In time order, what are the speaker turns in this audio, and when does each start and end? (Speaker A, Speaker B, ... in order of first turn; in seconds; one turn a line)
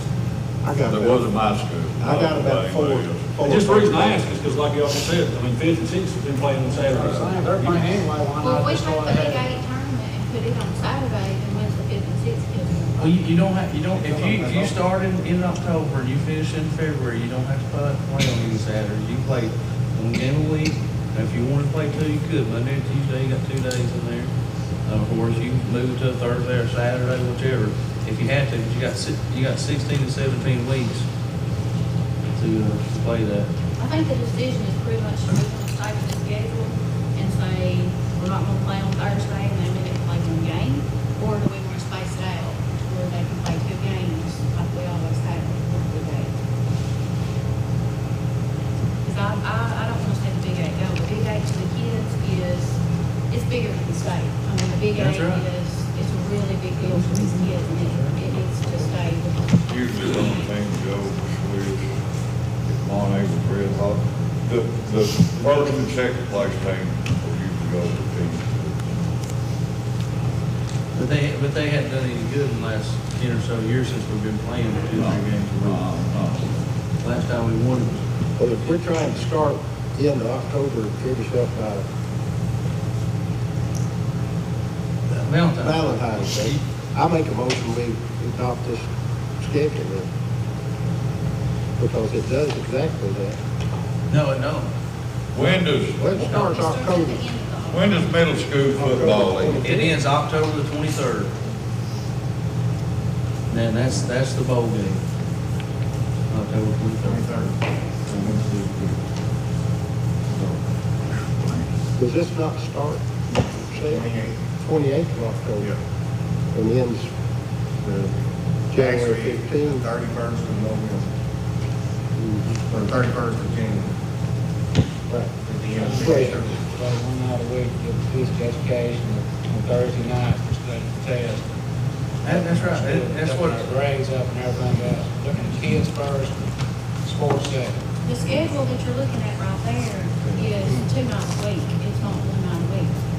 Speaker A: 0.6-1.3
Speaker B: 0.8-3.4
Speaker A: 2.0-4.2
Speaker C: 2.8-7.9
Speaker D: 6.7-9.5
Speaker E: 8.4-13.2
Speaker F: 13.0-24.3
Speaker G: 14.0-14.8
Speaker F: 24.9-31.1
Speaker F: 32.3-33.5
Speaker E: 33.8-46.3
Speaker E: 49.0-52.8
Speaker E: 53.3-59.5
Speaker F: 55.0-55.4
Speaker F: 57.9-58.2
Speaker B: 59.7-62.0
Speaker B: 62.7-69.0
Speaker F: 65.4-65.7
Speaker F: 71.0-75.9
Speaker B: 74.9-76.5
Speaker F: 77.0-79.5
Speaker A: 78.4-81.8
Speaker F: 85.1-86.6
Speaker A: 85.6-88.9
Speaker A: 89.4-90.1
Speaker A: 91.8-93.4
Speaker F: 94.1-94.7
Speaker B: 95.3-96.3
Speaker A: 96.0-97.2
Speaker F: 96.2-96.6
Speaker E: 96.3-98.0
Speaker B: 97.7-99.6
Speaker A: 98.8-99.9
Speaker F: 99.6-101.3
Speaker F: 103.5-105.0
Speaker F: 106.3-107.3
Speaker G: 107.0-109.0
Speaker G: 110.3-110.6
Speaker A: 112.0-114.0
Speaker G: 113.9-114.4
Speaker A: 114.5-115.7
Speaker A: 116.5-117.1
Speaker G: 117.8-118.1
Speaker A: 118.7-119.9
Speaker G: 118.7-121.1
Speaker A: 122.2-122.6
Speaker G: 122.7-124.0
Speaker G: 125.4-126.6
Speaker D: 125.8-131.5
Speaker A: 126.0-126.4
Speaker F: 132.2-133.7
Speaker D: 132.2-136.5
Speaker D: 137.0-137.8
Speaker E: 138.1-142.9
Speaker G: 140.2-140.6